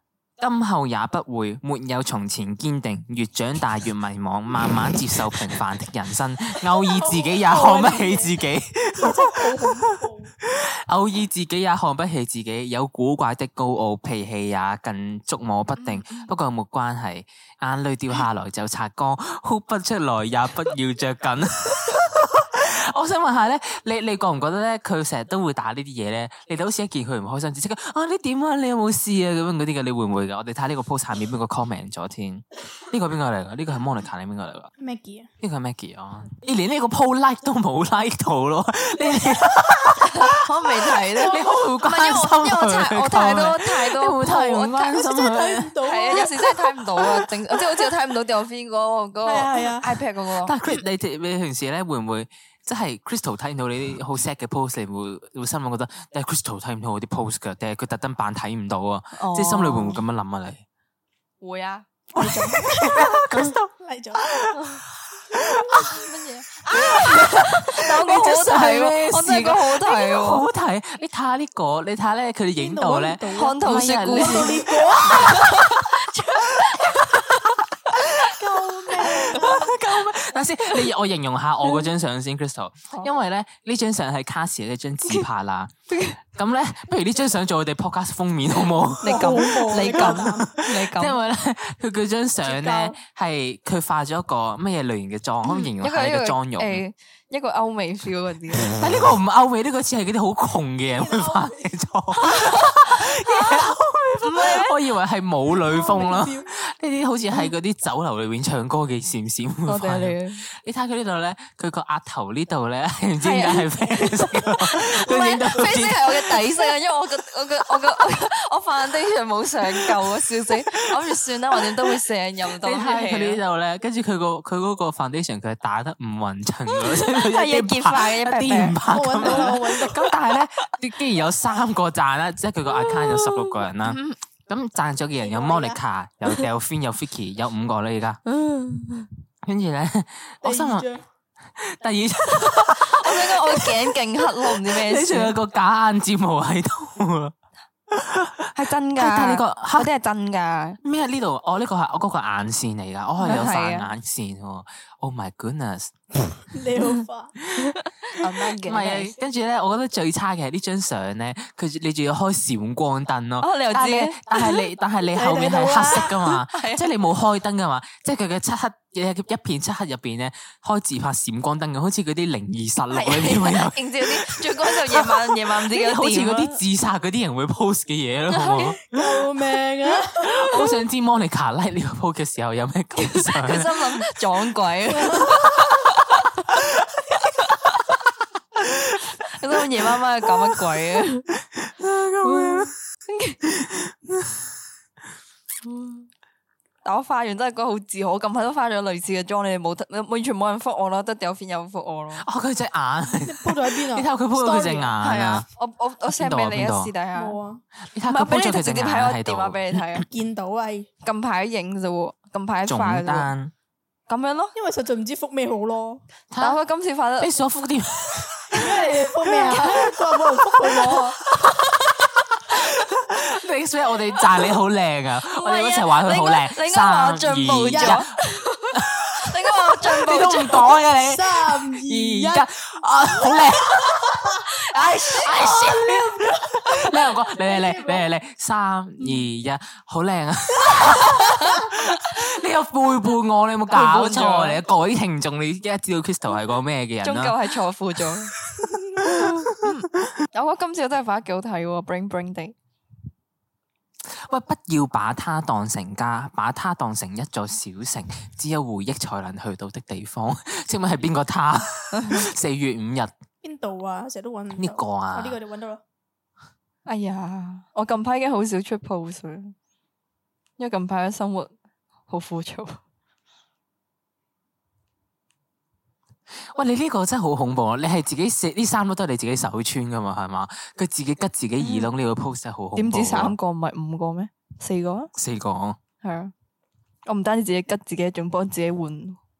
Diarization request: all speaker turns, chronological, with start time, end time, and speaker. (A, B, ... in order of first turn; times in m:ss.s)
0:00.4-0:34.7 A
0:06.8-0:10.3 B
0:15.8-0:16.3 C
0:34.8-0:35.3 B
0:35.4-0:46.3 A
0:40.1-0:44.9 C
0:41.1-0:41.7 B
0:44.8-0:47.9 B
0:45.8-0:50.8 C
0:49.2-0:50.0 B
0:50.4-1:00.6 A
0:59.2-1:00.0 C
1:01.4-1:01.9 C
1:02.1-1:06.1 A
1:02.2-1:04.4 B
1:04.6-1:04.8 C
1:05.8-1:10.5 C
1:06.7-1:25.8 A
1:12.6-1:15.4 B
1:13.3-1:17.5 C
1:18.3-1:19.7 B
1:19.0-1:19.8 C
1:25.9-1:26.2 C
1:26.3-1:36.8 A
1:29.0-1:31.2 C
1:29.0-1:30.5 B
1:32.4-1:33.0 B
1:35.4-1:38.8 C
1:38.7-1:56.6 A
1:41.0-1:41.7 B
1:42.3-1:43.6 C
1:44.2-1:44.8 C
1:45.5-1:46.5 B
1:49.7-1:50.4 C
1:53.2-2:03.4 C
2:00.6-2:00.9 A
2:01.6-2:01.9 A
2:02.6-2:18.2 A
2:06.7-2:09.6 C
2:08.9-2:10.1 B
2:12.7-2:14.2 C
2:15.2-2:15.8 B
2:18.3-2:19.1 C
2:19.4-2:20.9 A
2:20.4-2:21.0 B
2:21.6-2:27.4 A
2:22.5-2:25.3 C
2:27.9-2:29.9 A
2:28.6-2:30.8 C
2:30.8-2:36.0 A
2:33.2-2:33.9 C
2:36.5-2:37.3 B
2:37.4-2:37.7 A
2:37.6-2:39.2 C
2:38.6-2:59.3 A
2:43.4-2:44.6 C
2:45.1-2:46.2 B
2:46.3-2:46.9 C
2:52.9-2:56.6 C
2:58.3-2:58.8 C
2:58.9-3:00.6 B
3:00.1-3:04.2 A
3:03.0-3:06.3 C
3:04.9-3:05.3 B
3:05.3-3:05.7 A
3:06.3-3:07.2 A
3:07.3-3:07.8 C
3:08.6-3:10.9 A
3:08.6-3:11.3 C
3:11.5-3:12.7 A
3:12.2-3:13.4 C
3:13.5-3:14.4 A
3:15.6-3:16.1 C
3:16.8-3:22.2 C
3:22.2-3:25.5 A
3:23.2-3:24.9 B
3:24.6-3:27.4 C
3:26.1-3:26.9 A
3:27.1-3:27.6 B
3:27.8-3:30.0 A
3:28.1-3:30.1 C
3:30.1-3:30.9 B
3:31.0-3:33.3 C
3:32.7-3:33.5 A
3:34.1-3:34.5 C
3:34.6-3:36.0 B
3:36.3-3:36.6 A
3:36.4-3:37.3 C
3:37.2-3:38.6 A
3:38.5-3:38.8 C
3:38.5-3:41.2 B
3:39.2-3:48.1 A
3:39.4-3:39.7 C
3:45.3-3:50.7 C
3:47.6-3:48.0 B
3:48.7-4:07.5 A
3:50.5-3:54.5 B
3:54.7-3:55.5 C
3:55.3-3:58.1 B
4:03.7-4:04.6 C
4:07.0-4:08.3 C
4:08.4-4:09.7 A
4:08.6-4:08.9 B
4:09.0-4:12.5 C
4:14.1-4:23.1 A
4:21.9-4:22.3 C
4:23.4-4:25.8 B
4:24.6-4:25.4 A
4:26.9-4:29.5 C
4:30.6-4:31.5 C
4:32.1-4:32.8 C
4:36.4-4:43.4 A
4:41.6-4:41.9 C
4:42.8-4:45.1 C
4:45.2-4:45.8 A
4:46.0-4:46.3 C
4:47.1-4:49.2 C